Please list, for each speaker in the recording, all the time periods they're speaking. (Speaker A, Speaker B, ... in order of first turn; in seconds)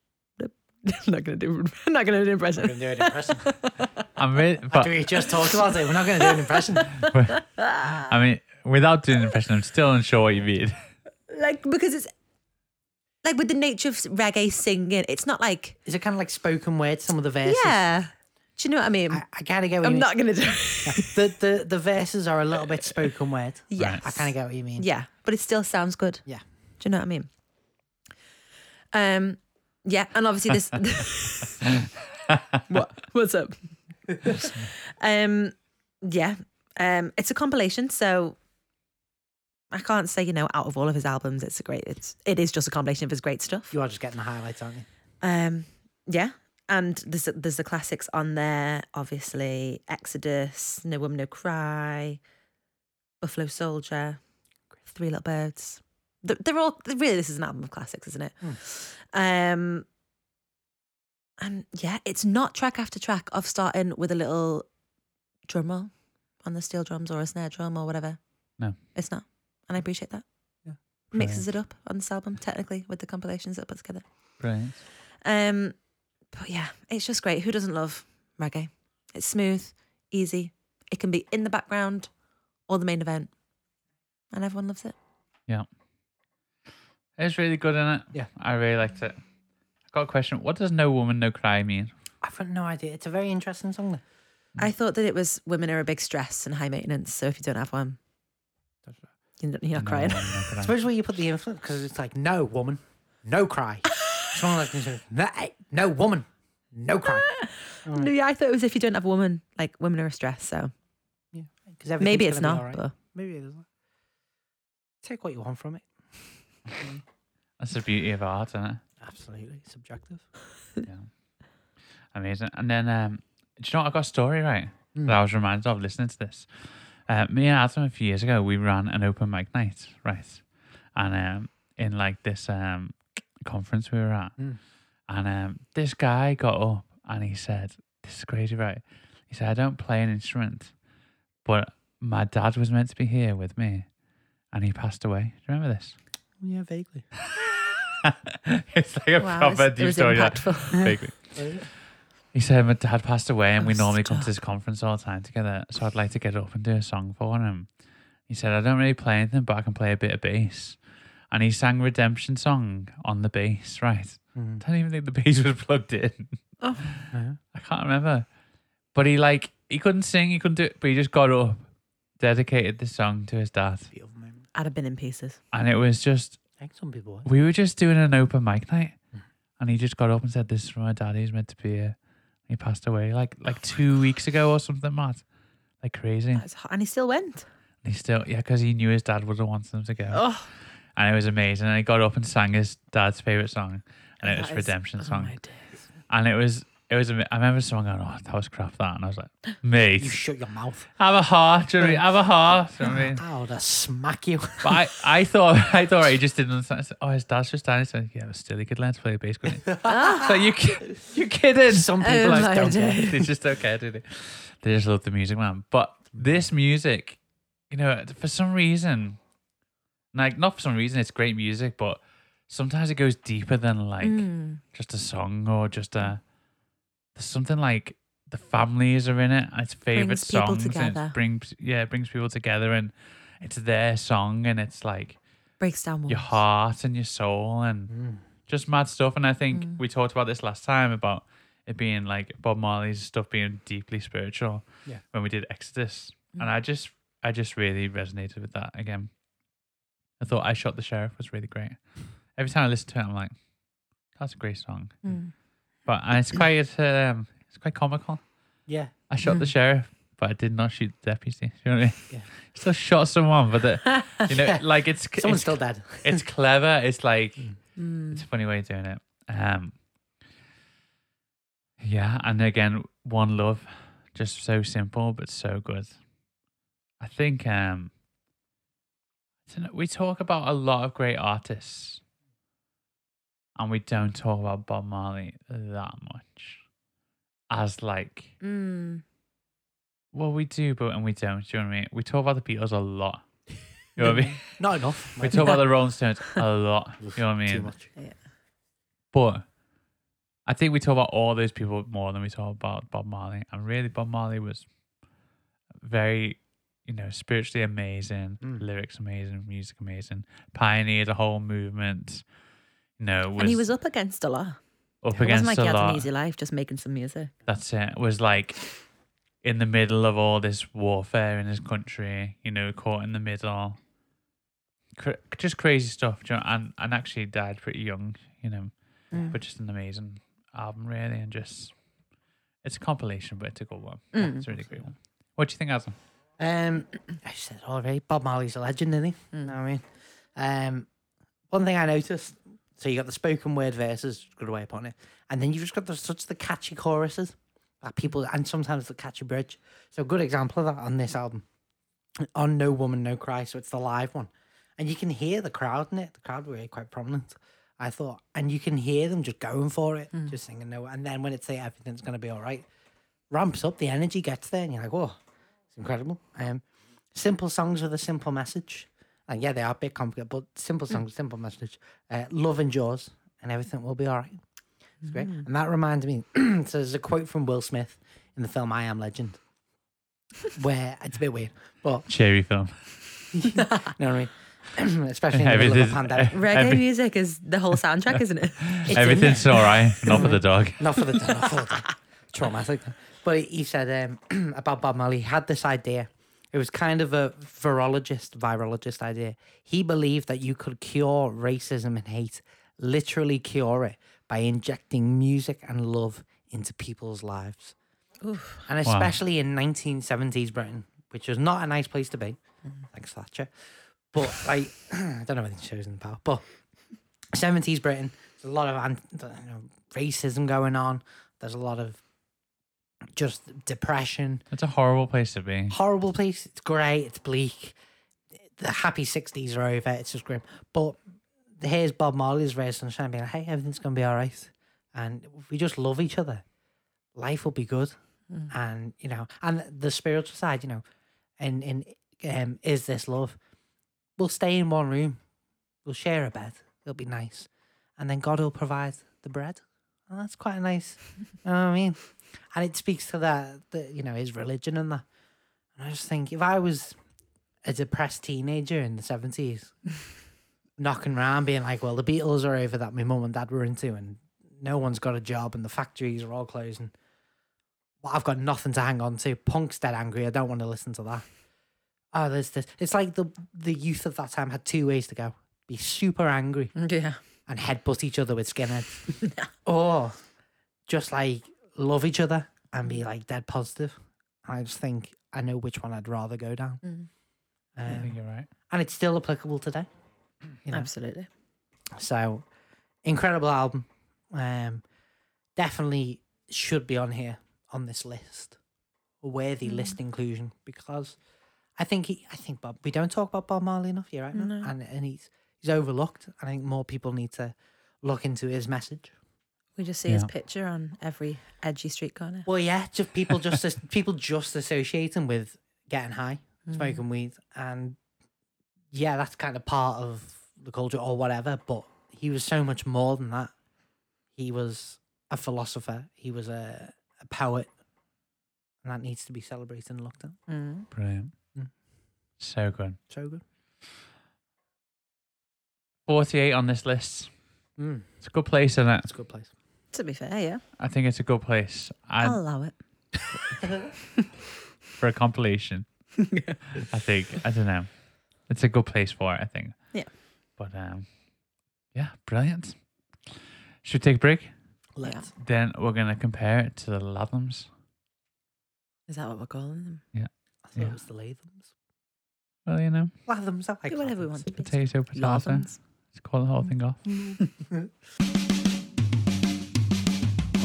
Speaker A: 0.4-3.9, 5.2-8.1, 11.3-12.1, 13.2-15.8, 17.4-19.2, 19.8-21.2, 23.7-26.2, 26.8-27.3, 28.9-31.8, 32.7-38.4, 39.7-43.7, 45.2-52.2, 53.2-54.2, 54.9-59.9, 61.4-64.7, 65.5-68.2, 68.8-70.2, 71.1-74.0, 75.2-75.8, 76.3-82.1, 82.7-83.3, 84.3-85.0, 94.6-98.0, 99.4-100.4, 107.1-110.7, 112.0-112.9, 149.2-151.0, 153.6-154.3, 166.6-166.8, 174.5-175.4, 186.4-187.5, 190.1-190.5, 194.2-195.6, 209.8-210.4, 212.0-213.3, 224.0-224.6, 229.9-231.2, 235.6-236.3, 239.5-239.8, 255.0-255.3, 259.2-259.5, 267.8-268.2, 288.4-289.0, 295.4-295.6, 313.4-314.6, 315.2-317.3, 334.1-334.5, 375.1-375.4, 383.6-383.9, 386.3-390.3, 391.2-391.6, 408.2-408.6, 476.8-477.2, 490.7-491.3, 499.6-500.0, 504.3-504.7, 509.8-512.5, 516.7-517.0, 530.5-530.9, 539.9-540.6, 542.2-543.2, 546.2-546.6, 559.1-560.0, 563.9-565.8, 567.0-567.5
Speaker B: 2.5-3.5, 4.7-7.0, 15.9-17.8, 19.1-20.1, 20.8-24.9, 43.7-44.9, 92.2-94.0, 100.6-107.3, 107.8-108.1, 111.3-113.7, 115.0-115.9, 116.8-117.0, 119.0-120.2, 146.4-147.1, 151.4-151.7, 164.3-164.6, 167.1-167.4, 173.9-174.4, 176.6-177.3, 200.0-200.9, 202.9-204.8, 209.7-210.1, 211.7-213.0, 237.9-238.2, 258.7-258.9, 265.2-266.2, 294.0-295.6, 297.0-297.9, 334.6-334.9, 336.4-340.9, 341.5-351.4, 352.2-362.7, 363.3-365.2, 365.7-374.4, 375.0-379.4, 380.6-382.1, 383.3-386.4, 388.9-407.8, 408.7-412.4, 412.9-413.5, 414.1-416.4, 417.3-422.0, 423.1-424.4, 425.7-427.8, 428.6-431.0, 431.6-436.4, 437.1-437.9, 438.5-440.8, 441.4-443.4, 444.2-445.2, 445.9-455.1, 455.8-457.0, 457.6-459.8, 460.8-466.9, 468.0-471.3, 472.1-476.7, 477.5-480.1, 480.9-486.8, 487.8-488.1, 488.7-489.9, 490.6-490.9, 491.9-492.5, 493.0-494.8, 495.6-498.6, 499.2-501.2, 501.8-509.1, 512.5-518.0, 518.9-523.5, 524.4-527.7, 528.8-530.4, 533.1-533.4, 537.8-538.1, 539.0-539.5, 543.6-543.9, 555.0-555.3, 560.7-561.7, 563.3-564.5, 567.2-567.9
Speaker C: 4.2-5.0, 7.0-7.4, 8.0-10.8, 23.8-24.1, 31.6-32.6, 71.2-71.4, 74.4-74.8, 87.2-89.2, 89.9-91.9, 99.8-100.8, 117.6-118.8, 120.8-121.1, 122.1-134.4, 135.1-140.7, 141.4-143.9, 144.5-146.0, 147.3-151.8, 152.3-157.7, 158.3-168.3, 168.9-171.7, 172.2-173.9, 175.5-176.4, 177.2-179.0, 179.6-185.2, 185.8-186.4, 187.8-190.3, 191.0-195.4, 196.1-200.2, 201.0-203.2, 204.6-219.2, 220.1-226.3, 227.2-235.2, 236.1-237.9, 238.4-249.1, 250.2-253.3, 254.1-255.0, 255.8-258.3, 259.1-269.8, 271.8-276.0, 277.0-277.9, 279.5-282.0, 283.6-286.6, 287.5-288.4, 290.1-293.2, 293.9-294.5, 295.2-297.7, 299.1-299.5, 300.5-304.7, 305.8-312.2, 313.0-313.6, 315.0-316.1, 317.5-318.7, 319.4-323.8, 325.0-331.8, 332.6-336.0, 382.1-382.9, 385.3-386.8, 388.6-391.1, 408.9-409.1, 424.5-425.8, 487.9-488.5, 530.9-531.3, 532.4-533.0, 536.1-537.3, 538.2-539.1, 540.8-542.4, 545.0-545.9, 546.8-547.9, 548.5-549.9, 550.5-551.1, 551.9-552.8, 553.8-554.5, 555.4-557.7, 560.1-561.0, 562.7-563.1, 564.6-567.0